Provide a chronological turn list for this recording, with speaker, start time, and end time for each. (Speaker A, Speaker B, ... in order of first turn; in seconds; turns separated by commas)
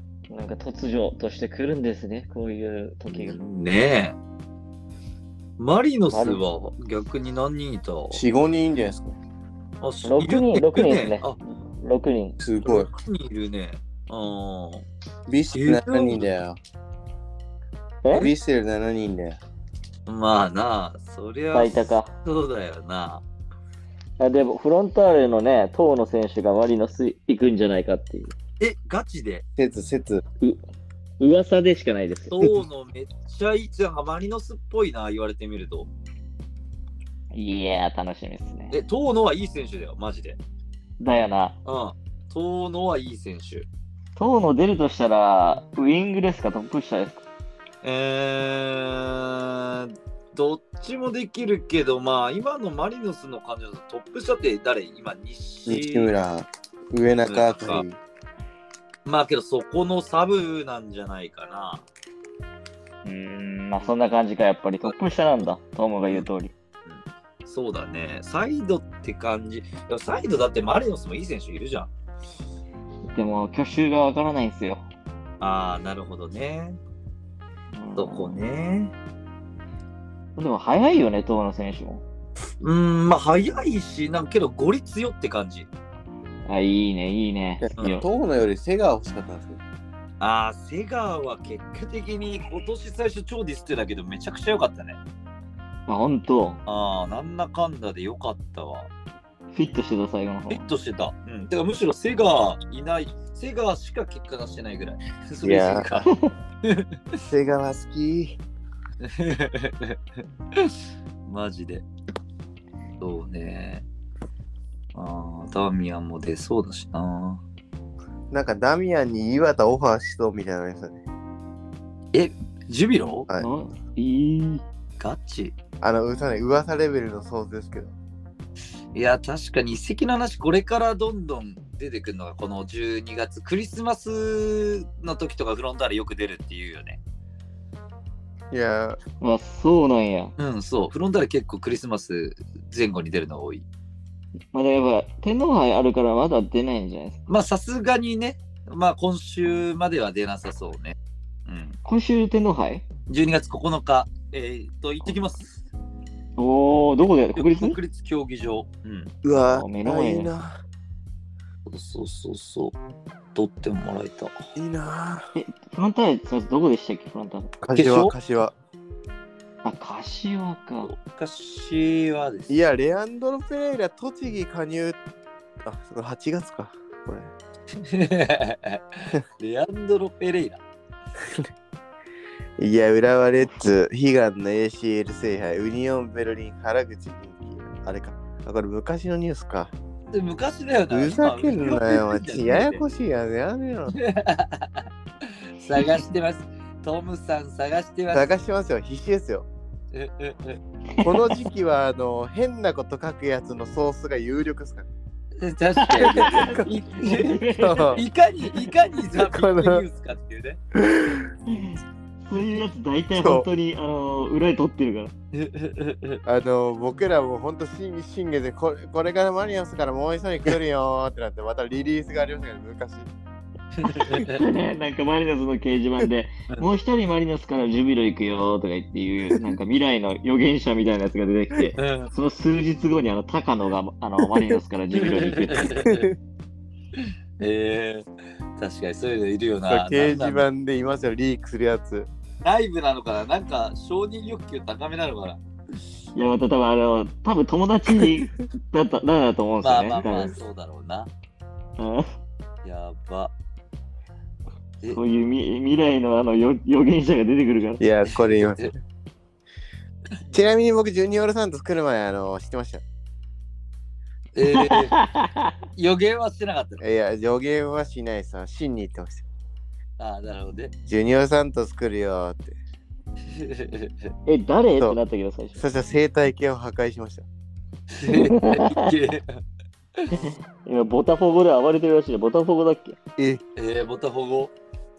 Speaker A: 0.3-3.4, Speaker B: 3.1-4.2, Speaker B: 5.6-8.2, Speaker A: 6.1-6.4, Speaker C: 8.1-9.2, Speaker B: 9.8-11.4, Speaker A: 10.0-12.4, Speaker C: 12.4-12.9, Speaker B: 12.6-14.8, Speaker C: 15.3-16.6, Speaker B: 15.5-16.3, Speaker A: 18.0-18.3, Speaker C: 18.1-19.4, Speaker B: 20.1-23.2, Speaker A: 21.5-22.1, Speaker A: 24.2-28.3, Speaker B: 28.6-29.4, Speaker C: 29.6-30.2, Speaker A: 31.2-32.3, Speaker B: 32.3-35.9, Speaker A: 37.3-38.7, Speaker B: 38.7-40.4, Speaker A: 41.0-41.6, Speaker B: 41.6-43.7, Speaker A: 44.1-47.2, Speaker B: 47.8-56.1, Speaker C: 55.7-58.0, Speaker B: 57.2-57.8, Speaker B: 59.0-61.9, Speaker A: 63.0-66.5, Speaker B: 66.8-71.9, Speaker A: 73.1-74.8, Speaker B: 75.4-76.8, Speaker A: 77.7-78.4, Speaker B: 78.0-78.9, Speaker A: 80.3-82.0, Speaker B: 82.6-85.7, Speaker A: 86.5-88.0, Speaker C: 87.6-89.6, Speaker B: 90.2-95.0, Speaker A: 95.9-96.6, Speaker B: 96.7-98.9, Speaker A: 99.5-100.6, Speaker B: 100.5-106.1, Speaker C: 105.4-105.9, Speaker B: 106.6-107.2, Speaker C: 107.2-108.4, Speaker B: 109.0-110.0, Speaker B: 111.2-111.8, Speaker B: 113.0-113.9, Speaker B: 114.9-117.4, Speaker C: 118.3-121.0, Speaker B: 122.1-123.3, Speaker A: 123.3-124.6, Speaker B: 125.0-125.5, Speaker C: 125.8-127.9, Speaker B: 128.9-137.0, Speaker C: 138.5-139.0, Speaker A: 139.2-140.3, Speaker B: 140.4-143.6, Speaker A: 144.5-147.2, Speaker B: 147.3-151.8, Speaker A: 151.8-152.9, Speaker B: 153.1-155.6, Speaker A: 156.4-157.8, Speaker B: 157.3-159.1, Speaker C: 159.2-160.6, Speaker A: 159.3-160.3, Speaker B: 161.7-162.8, Speaker B: 163.3-164.4, Speaker C: 164.6-165.3, Speaker A: 165.3-167.5, Speaker C: 167.6-168.5, Speaker B: 167.7-168.1, Speaker A: 169.6-170.9, Speaker B: 170.8-172.6, Speaker C: 172.5-175.0, Speaker C: 175.6-177.3, Speaker B: 177.8-180.6, Speaker C: 181.2-181.5, Speaker C: 182.6-189.7, Speaker B: 190.1-192.8, Speaker C: 190.9-193.9, Speaker B: 193.9-198.3, Speaker C: 198.1-199.5, Speaker B: 199.9-200.6, Speaker A: 200.9-201.2, Speaker C: 201.0-204.9, Speaker B: 205.4-210.6, Speaker A: 205.8-208.0, Speaker C: 206.0-206.6, Speaker C: 207.6-208.0, Speaker C: 209.1-209.8, Speaker C: 210.7-211.3, Speaker A: 211.5-215.1, Speaker C: 213.1-213.5, Speaker B: 215.3-216.2, Speaker C: 216.2-223.1, Speaker B: 223.8-224.4, Speaker A: 224.2-235.8, Speaker B: 231.8-232.1, Speaker B: 234.9-236.1, Speaker C: 235.8-236.1, Speaker B: 237.0-238.1, Speaker B: 238.6-240.4, Speaker C: 239.7-242.1, Speaker B: 242.4-245.4, Speaker A: 246.1-250.3, Speaker B: 249.6-251.1, Speaker A: 251.8-252.1, Speaker B: 252.6-253.3, Speaker A: 254.9-257.8, Speaker C: 257.8-258.8, Speaker C: 260.3-262.8, Speaker B: 264.3-265.0, Speaker A: 264.5-265.5, Speaker B: 265.7-266.8, Speaker C: 266.8-269.2, Speaker B: 270.0-270.7, Speaker C: 270.9-272.6, Speaker B: 273.3-274.1, Speaker A: 274.2-275.6, Speaker C: 275.6-277.2, Speaker B: 277.9-279.4, Speaker A: 278.1-278.9, Speaker B: 280.0-280.2, Speaker A: 280.1-283.0, Speaker C: 283.2-283.4, Speaker B: 283.6-284.5